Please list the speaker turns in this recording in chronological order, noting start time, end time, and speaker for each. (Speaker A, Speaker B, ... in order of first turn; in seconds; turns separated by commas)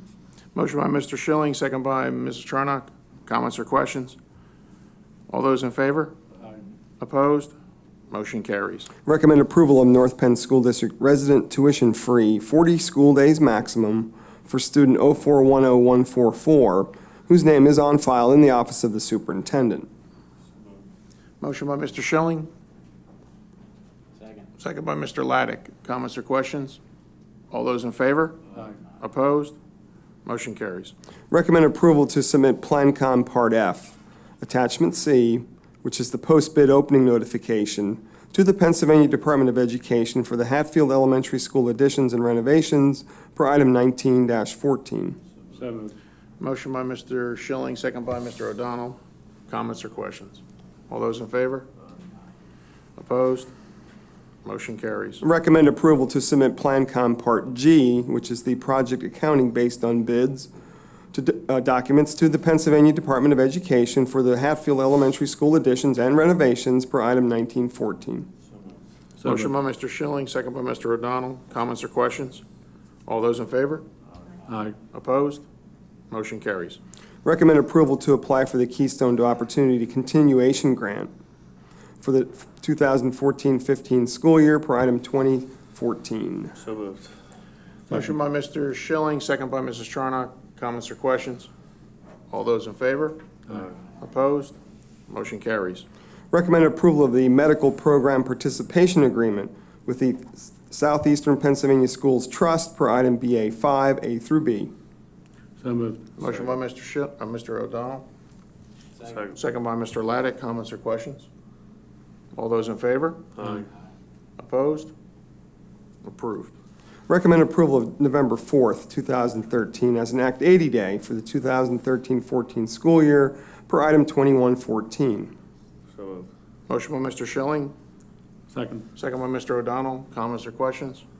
Speaker A: 0.5-4.2, Speaker A: 5.3-6.2, Speaker A: 7.0-7.5, Speaker A: 8.1-8.9, Speaker B: 9.1-19.9, Speaker A: 21.4-22.5, Speaker A: 24.6-26.8, Speaker A: 27.5-29.5, Speaker A: 30.2-30.9, Speaker B: 31.3-45.2, Speaker C: 45.5-45.9, Speaker A: 46.4-49.0, Speaker A: 49.5-51.7, Speaker A: 53.0-53.5, Speaker A: 54.4-55.2, Speaker B: 55.2-60.5, Speaker B: 61.1-68.3, Speaker A: 69.2-72.4, Speaker A: 73.1-73.8, Speaker C: 74.5-74.7, Speaker A: 74.9-75.4, Speaker A: 76.1-76.8, Speaker B: 77.2-81.1, Speaker B: 82.0-86.5, Speaker C: 86.6-87.1, Speaker A: 87.9-91.5, Speaker A: 92.3-94.6, Speaker A: 95.1-95.8, Speaker B: 96.3-104.7, Speaker C: 105.6-106.0, Speaker A: 106.2-108.0, Speaker A: 109.3-111.3, Speaker A: 112.3-113.6, Speaker A: 114.4-114.9, Speaker A: 116.0-116.5, Speaker B: 117.1-125.3, Speaker C: 126.0-126.3, Speaker A: 126.7-127.7, Speaker C: 128.5-128.8, Speaker A: 128.9-131.0